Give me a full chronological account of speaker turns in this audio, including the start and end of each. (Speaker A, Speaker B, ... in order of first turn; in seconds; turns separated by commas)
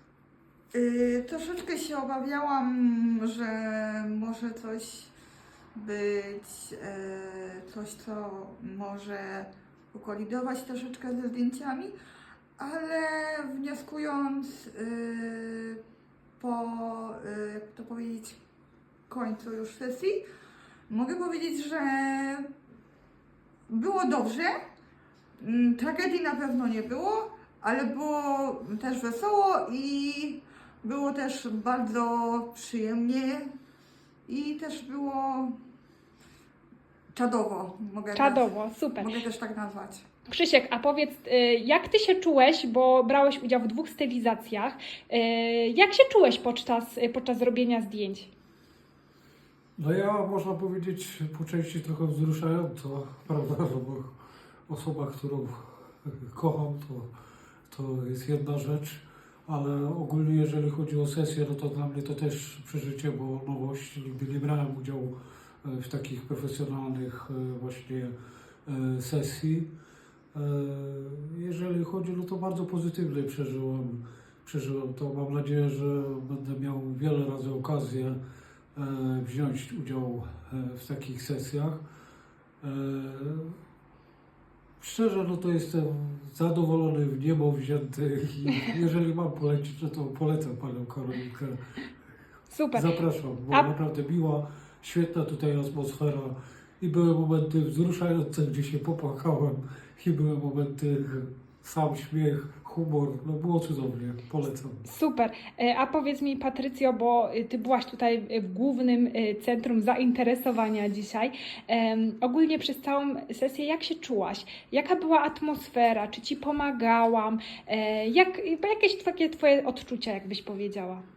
Speaker A: 0.7-5.1, Speaker A: 5.7-11.9, Speaker A: 12.6-15.8, Speaker A: 16.4-18.4, Speaker A: 19.1-20.2, Speaker A: 20.9-22.5, Speaker A: 23.7-24.5, Speaker A: 25.4-33.5, Speaker A: 34.2-35.5, Speaker A: 37.1-40.0, Speaker B: 38.1-39.2, Speaker B: 40.3-48.3, Speaker C: 49.8-54.1, Speaker C: 54.7-57.1, Speaker C: 57.7-68.1, Speaker C: 68.7-69.7, Speaker C: 70.3-78.2, Speaker C: 78.7-81.8, Speaker C: 82.6-83.6, Speaker C: 84.8-91.6, Speaker B: 92.5-92.9, Speaker C: 92.7-104.8, Speaker B: 104.8-121.0